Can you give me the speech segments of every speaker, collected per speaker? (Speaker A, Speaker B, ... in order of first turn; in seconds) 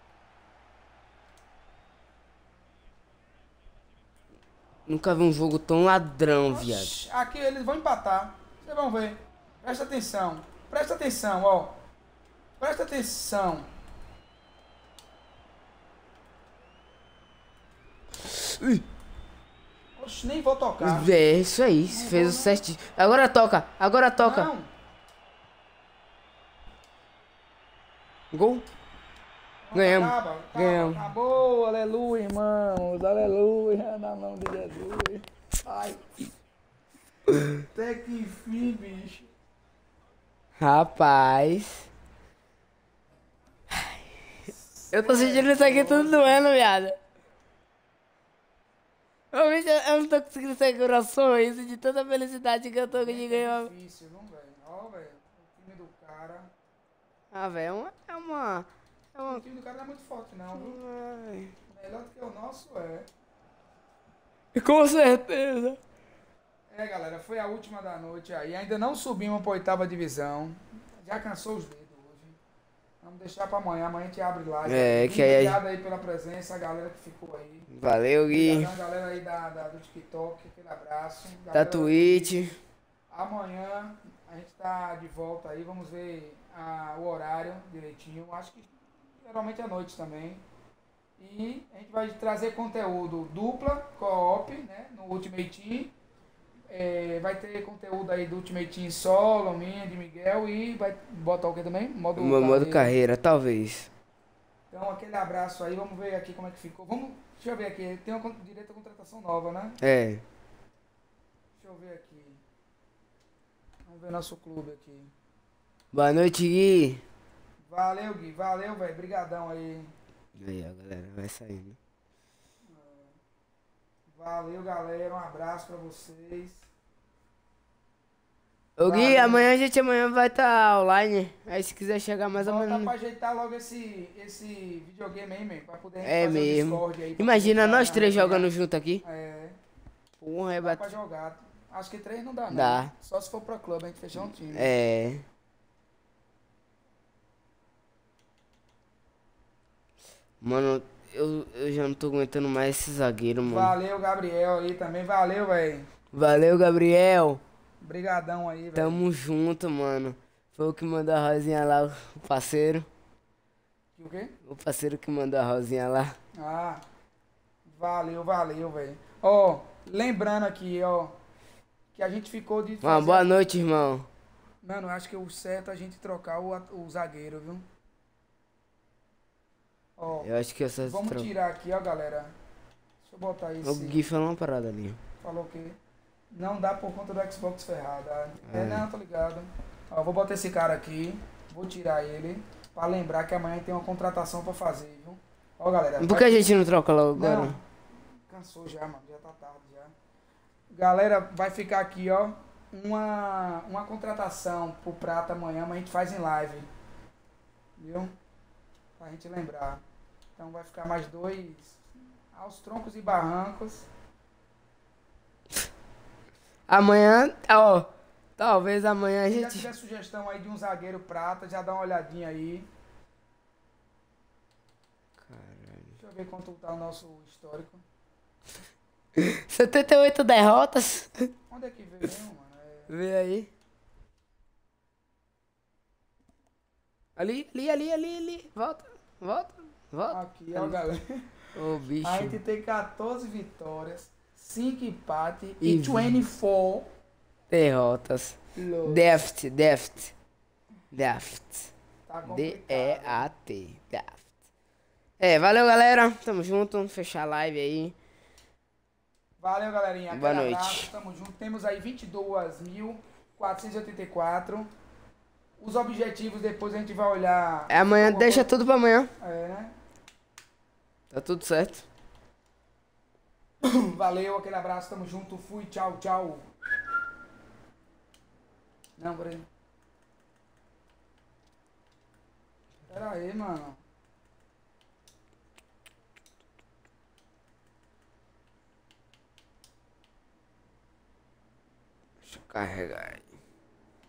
Speaker A: 4.9-6.9, 18.2-18.8, 20.8-24.5, 28.3-28.6, 29.7-31.0, 40.6-41.9, 43.7-44.0, 44.9-47.0, 49.3-53.7, 57.3-59.4, 60.5-61.5, 64.5-65.8, 74.7-75.6, 77.7-78.7, 81.5-82.6, 102.2-103.9, 109.8-110.2, 115.9-117.0, 120.3-121.8, 128.8-132.9, 136.0-139.0, 140.2-140.9, 142.5-142.9, 144.4-145.2, 150.4-153.7, 156.1-157.4, 158.7-162.9, 164.4-166.2, 172.8-174.1, 180.2-181.3, 183.6-185.0, 188.5-188.8, 196.0-197.6, 216.7-219.7, 225.2-225.9, 229.1-231.3, 232.9-233.5, 237.2-240.8, 241.6-242.4, 245.6-246.2, 247.5-250.1, 250.9-251.7, 252.2-254.3, 255.2-257.9, 260.1-260.9, 267.7-269.1, 271.1-271.9, 292.3-293.2
Speaker B: 6.5-11.8, 12.6-13.7, 20.0-21.1, 21.9-22.6, 24.2-24.7, 29.6-36.2, 37.5-39.3, 44.7-46.4, 52.9-56.5, 59.2-60.8, 61.7-63.1, 66.7-72.4, 73.0-77.7, 78.3-82.5, 83.1-90.4, 91.2-95.9, 96.7-103.0, 104.7-109.8, 111.6-112.4, 113.9-115.1, 117.6-119.9, 122.7-123.1, 124.1-126.7, 128.8-129.5, 132.4-138.5, 139.0-139.6, 140.6-144.7, 153.4-155.9, 157.8-159.0, 163.9-164.3, 166.4-166.8, 167.7-171.1, 171.9-173.3, 174.6-177.6, 180.0-180.3, 180.8-182.3, 183.0-184.0, 185.2-185.8, 186.3-196.6, 197.1-197.6, 198.3-199.9, 200.7-206.7, 207.8-208.2, 209.0-209.8, 210.4-211.8, 212.3-213.9, 219.3-222.7, 226.0-227.8, 231.5-233.0, 240.1-246.9, 248.6-249.1, 252.1-253.3, 259.4-264.7, 265.6-268.5, 269.2-269.7, 273.6-276.5, 279.0-279.5, 282.9-283.8